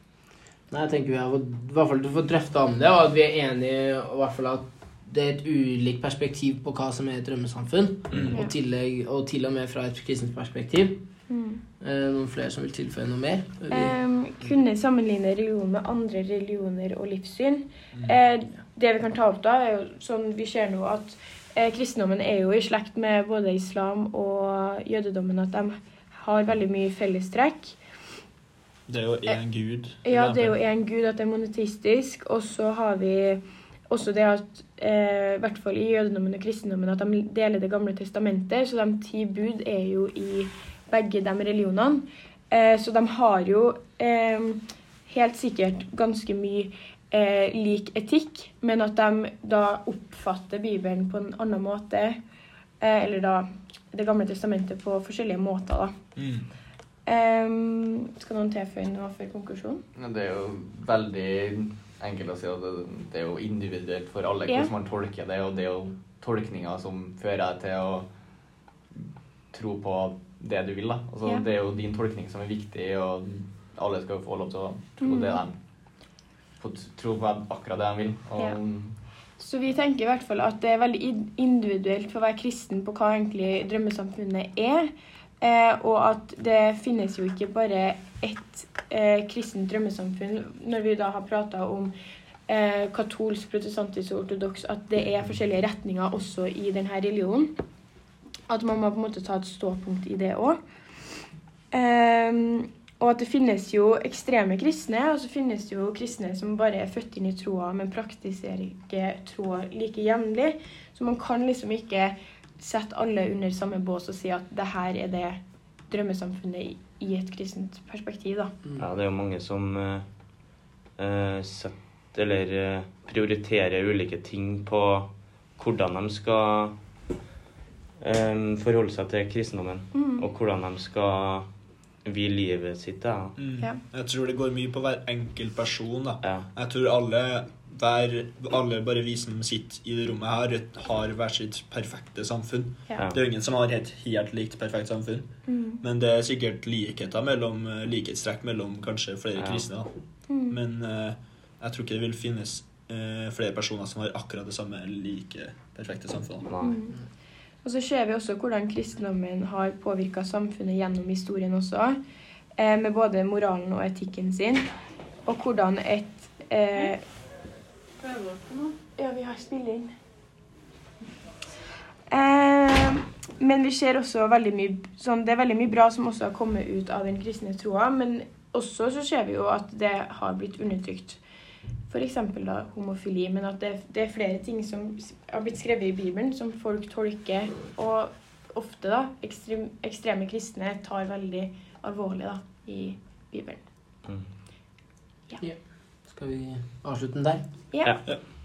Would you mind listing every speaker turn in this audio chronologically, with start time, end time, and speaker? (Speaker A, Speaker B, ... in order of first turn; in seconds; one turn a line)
Speaker A: 0.7-11.0
Speaker B: 11.3-11.6
Speaker A: 11.8-13.9
Speaker B: 13.7-27.8
Speaker C: 28.9-30.6
Speaker B: 30.0-52.2
Speaker B: 52.8-55.9
Speaker C: 56.1-56.5
Speaker B: 57.1-59.8
Speaker D: 60.0-68.1
Speaker D: 68.9-75.6
Speaker B: 75.0-75.4
Speaker D: 76.6-79.0
Speaker B: 79.4-84.9
Speaker B: 85.4-91.9
Speaker B: 92.5-97.5
Speaker B: 98.5-100.6
Speaker B: 101.7-118.6
Speaker E: 118.8-120.0
Speaker E: 121.0-126.7
Speaker E: 128.0-131.5
Speaker B: 129.9-130.3
Speaker E: 132.0-133.3
Speaker C: 133.4-149.9
Speaker B: 145.5-145.8
Speaker E: 149.3-149.7
Speaker B: 150.3-150.6
Speaker C: 150.5-156.5
Speaker E: 156.4-156.8
Speaker B: 156.6-157.0
Speaker B: 157.6-161.9
Speaker B: 162.6-164.7
Speaker B: 165.3-167.0
Speaker B: 168.9-169.9
Speaker B: 172.1-181.2
Speaker B: 181.9-193.6
Speaker A: 195.4-197.4